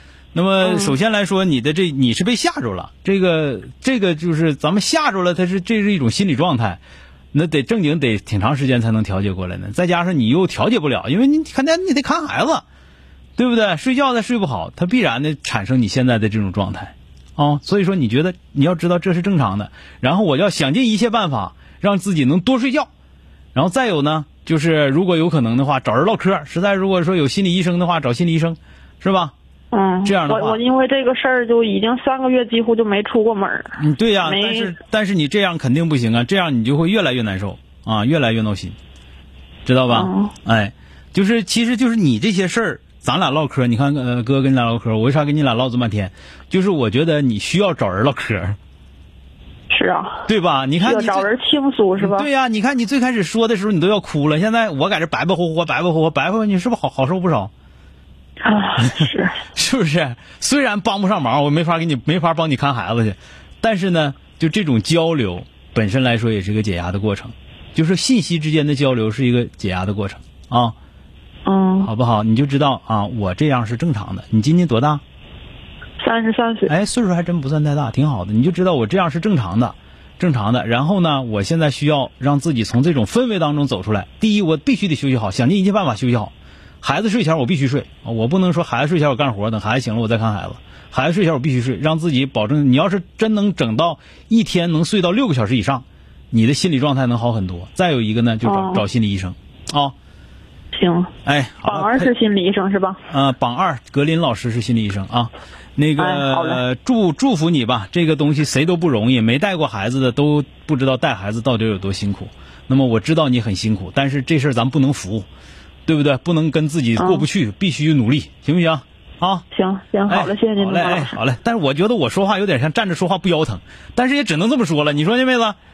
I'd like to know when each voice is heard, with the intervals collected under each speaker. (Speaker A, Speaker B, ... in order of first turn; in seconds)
Speaker A: 0.3-6.8, 7.3-12.6, 13.4-22.9, 23.5-29.3, 30.0-30.6, 33.8-38.8, 39.6-48.6, 50.3-51.3, 52.0-57.5, 58.8-70.8, 71.8-75.0, 76.7-99.9, 101.2-102.1, 103.1-115.3, 115.8-119.5, 120.1-125.6
Speaker B: 0.6-0.9, 29.7-34.7, 39.9-40.3, 49.7-50.2, 50.8-52.3, 58.4-59.4, 71.5-71.9, 76.0-76.7, 98.4-98.8, 100.7-101.1, 101.7-103.0, 106.0-106.6, 117.0-117.2, 119.5-121.2